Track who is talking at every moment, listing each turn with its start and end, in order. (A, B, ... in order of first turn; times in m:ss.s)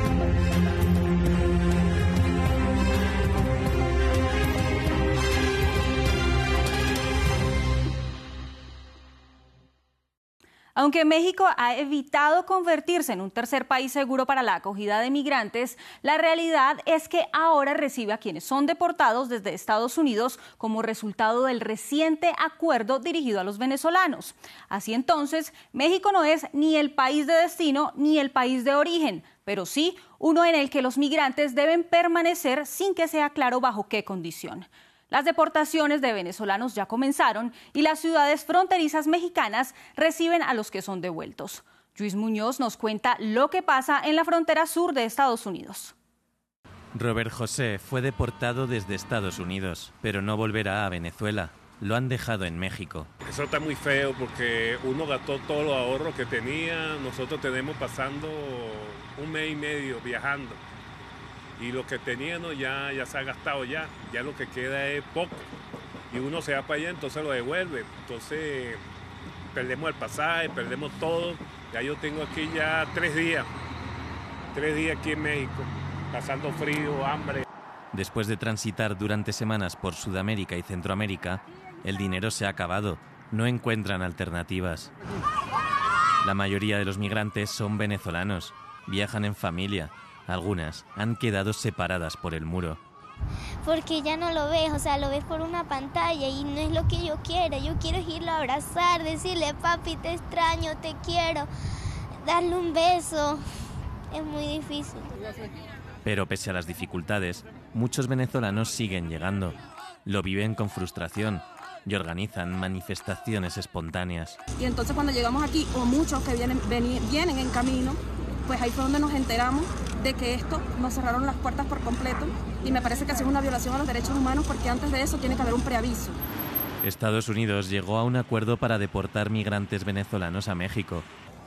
0:10.8-0:45.9 A
0:46.9-0:53.1 B
0:53.2-1:00.6 C
1:01.6-1:05.4 C
1:06.1-1:08.8 C
1:09.5-1:13.5 C
1:14.5-1:17.4 C
1:17.9-1:24.9 B
1:26.2-1:32.8 B
1:33.6-1:41.5 D
1:42.2-1:43.4 D
1:44.1-1:45.1 D
1:46.0-1:49.5 B
1:50.0-1:54.4 B
1:54.6-2:06.2 E
2:06.8-2:11.0 B